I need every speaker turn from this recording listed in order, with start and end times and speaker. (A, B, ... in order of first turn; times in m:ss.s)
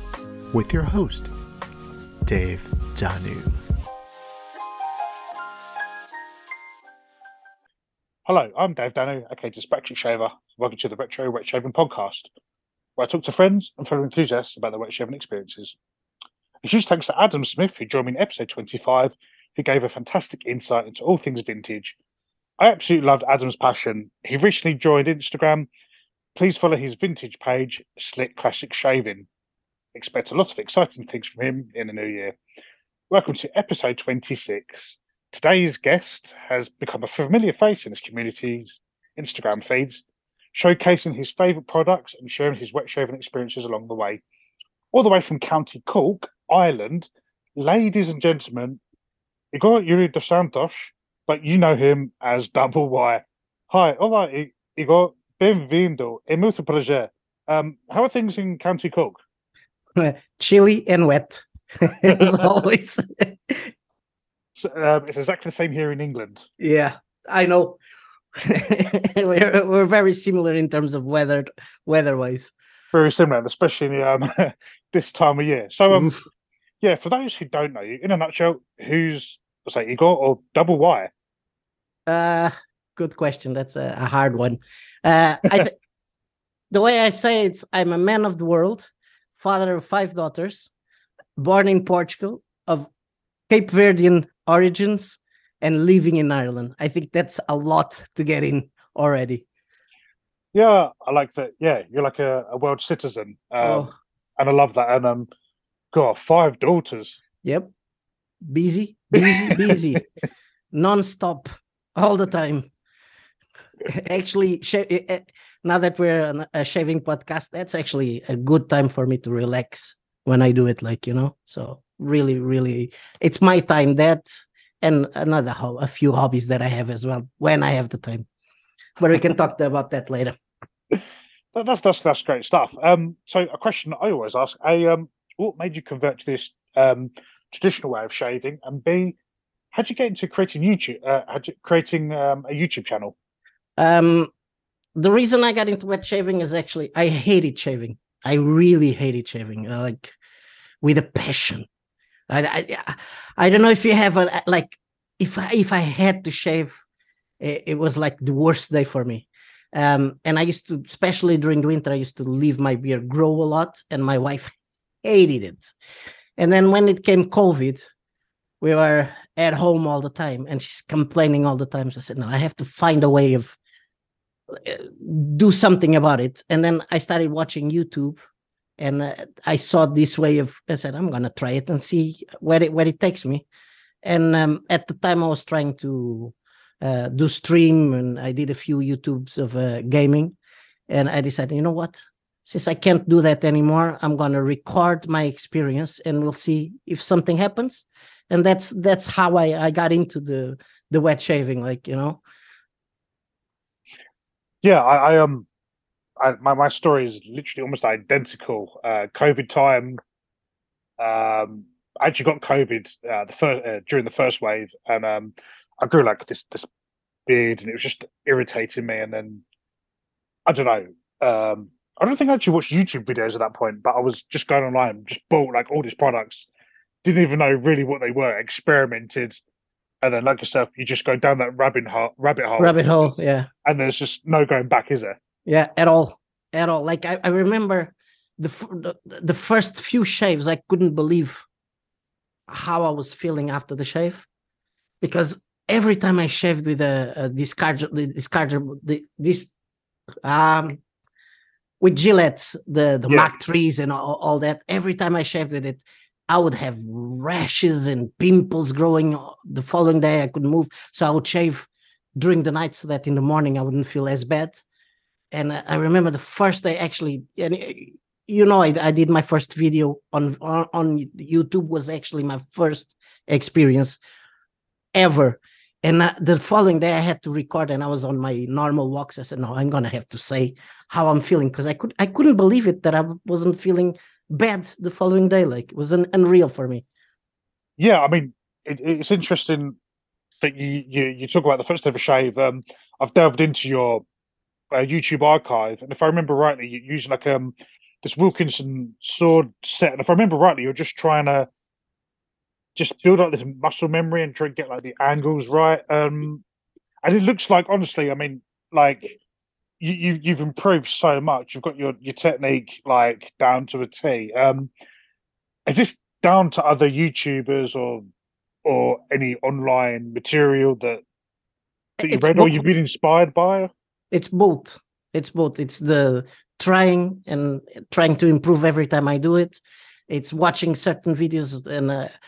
0:00.5-0:01.3 A
0:02.2-0:03.6 A
0:08.2-0:12.3 B
0:13.0-0:15.7 B
0:16.6-0:21.9 B
0:22.6-0:25.7 B
0:26.4-0:29.3 B
0:29.9-0:32.4 B
0:33.1-0:40.0 B
0:40.5-0:44.2 B
0:44.9-0:48.8 B
0:49.5-0:59.2 B
1:00.0-1:03.7 C
1:02.1-1:02.5 B
1:04.6-1:06.4 B
1:06.6-1:07.8 C
1:08.4-1:12.5 C
1:12.9-1:16.2 B
1:15.9-1:16.2 C
1:16.8-1:21.1 B
1:22.1-1:25.8 C
1:26.7-1:30.7 C
1:31.4-1:32.9 C
1:33.5-1:39.4 C
1:40.5-1:45.3 B
1:43.6-1:43.9 C
1:45.9-1:47.2 B
1:47.4-1:47.7 C
1:48.4-1:50.0 C
1:49.1-1:50.0 B
1:50.7-1:52.7 C
1:53.9-2:08.2 C
2:09.0-2:10.3 C
2:11.5-2:19.2 B
2:19.7-2:23.1 B
2:23.8-2:24.3 C
2:25.0-2:30.1 C
2:30.8-2:31.6 C
2:32.3-2:36.8 C
2:37.4-2:45.7 C
2:46.4-2:47.9 C
2:48.6-2:53.6 C
2:54.5-2:58.2 C
2:58.8-3:03.4 C
3:04.0-3:10.3 C
3:10.9-3:22.2 C
3:24.6-3:25.5 B
3:26.2-3:30.0 B
3:31.0-3:36.7 B
3:37.3-3:39.4 B
3:40.4-3:46.5 B
3:47.0-3:49.4 B
3:50.0-3:53.1 B
3:52.6-3:53.5 C
3:53.6-3:55.2 B
3:55.4-4:01.4 C
4:02.5-4:04.3 C
4:05.0-4:09.5 C
4:10.2-4:10.8 C
4:11.8-4:24.6 C
4:25.3-4:34.0 C
4:34.9-4:46.8 C
4:47.8-4:49.8 B
4:50.4-4:54.0 B
4:54.7-5:01.5 B
5:02.8-5:06.4 B
5:07.0-5:09.2 B
5:09.8-5:14.7 B
5:15.6-5:18.0 B
5:18.6-5:21.0 B
5:22.0-5:22.8 C
5:22.0-5:23.7 B
5:24.1-5:32.1 C